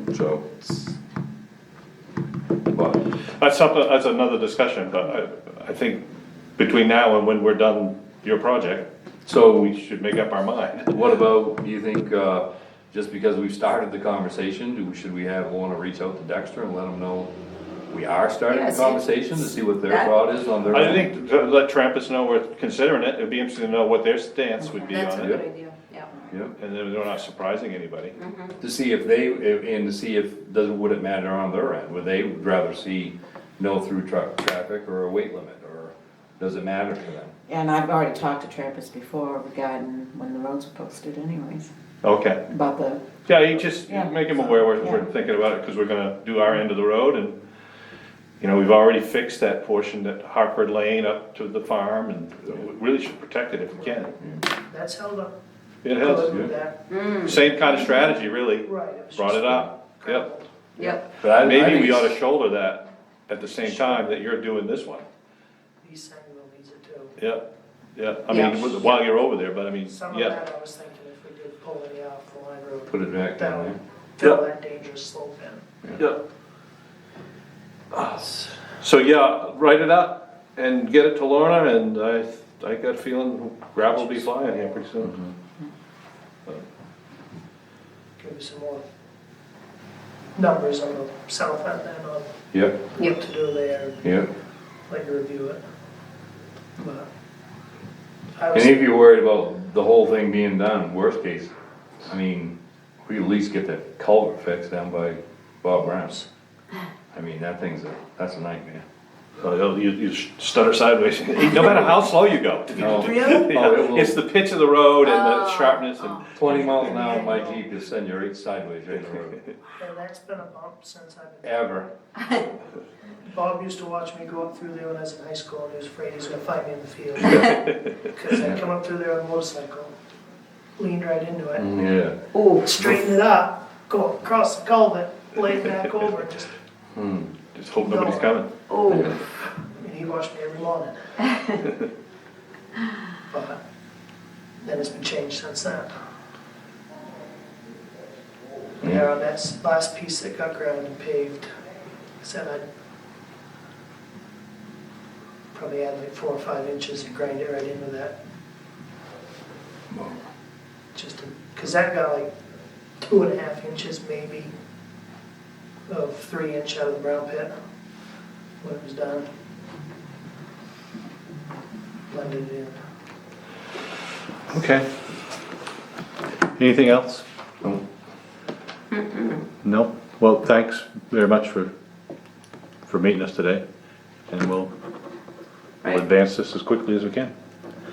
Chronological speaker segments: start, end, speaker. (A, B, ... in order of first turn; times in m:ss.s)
0:00.1-0:00.4 A
0:00.6-0:00.9 B
0:02.7-0:03.0 A
0:03.4-0:06.0 C
0:06.6-0:08.9 C
0:09.3-0:09.7 A
0:09.6-0:10.9 C
0:10.8-0:17.3 A
0:17.9-0:21.1 A
0:18.5-0:20.2 D
0:20.7-0:25.4 C
0:24.8-0:26.1 D
0:25.1-0:25.4 A
0:26.3-0:26.6 A
0:26.6-0:28.2 C
0:28.2-0:28.6 D
0:28.6-0:37.3 A
0:37.5-0:41.7 B
0:42.0-0:42.4 C
0:42.5-0:43.1 B
0:43.3-0:47.4 C
0:43.9-0:45.0 B
0:48.4-0:54.1 C
0:53.8-0:55.4 E
0:55.8-0:56.3 C
0:55.9-0:57.6 E
0:56.3-0:56.5 A
0:56.9-0:57.3 D
0:57.2-1:00.3 C
0:58.6-1:00.9 E
1:00.8-1:01.1 D
1:01.2-1:02.2 A
1:01.2-1:05.0 C
1:03.6-1:04.0 E
1:05.8-1:07.2 E
1:07.2-1:07.4 C
1:08.0-1:10.4 C
1:08.3-1:09.0 D
1:09.9-1:15.6 E
1:12.9-1:13.8 A
1:18.7-1:25.2 C
1:24.0-1:24.9 E
1:28.2-1:28.8 E
1:30.4-1:32.4 E
1:32.5-1:32.8 A
1:32.9-1:34.2 E
1:34.0-1:34.3 A
1:34.9-1:35.6 E
1:36.8-1:37.1 E
1:38.4-1:39.0 E
1:38.5-1:41.5 A
1:42.0-1:46.2 A
1:47.1-1:48.8 A
1:49.4-1:56.8 C
1:52.8-1:54.2 A
1:52.9-1:53.5 E
1:55.0-1:56.4 D
1:56.4-1:59.4 A
1:56.6-1:57.7 E
1:59.8-2:01.9 E
2:01.4-2:01.9 A
2:03.2-2:09.9 E
2:10.8-2:11.7 E
2:11.6-2:12.2 A
2:12.3-2:12.6 D
2:12.6-2:16.5 E
2:17.0-2:17.3 A
2:17.5-2:18.6 C
2:17.7-2:21.0 E
2:18.7-2:19.2 D
2:18.9-2:19.2 A
2:23.3-2:23.6 E
2:24.6-2:26.0 E
2:28.8-2:31.5 E
2:32.2-2:32.6 E
2:35.5-2:38.2 E
2:39.9-2:40.2 A
2:40.9-2:42.3 E
2:43.0-2:44.5 E
2:45.9-2:47.5 E
2:48.6-2:49.3 E
2:52.1-2:52.8 E
2:54.5-2:54.9 C
2:56.6-2:57.2 C
2:58.9-2:59.4 D
2:59.6-3:01.7 C
3:02.9-3:03.6 C
3:04.3-3:04.7 C
3:05.8-3:07.3 C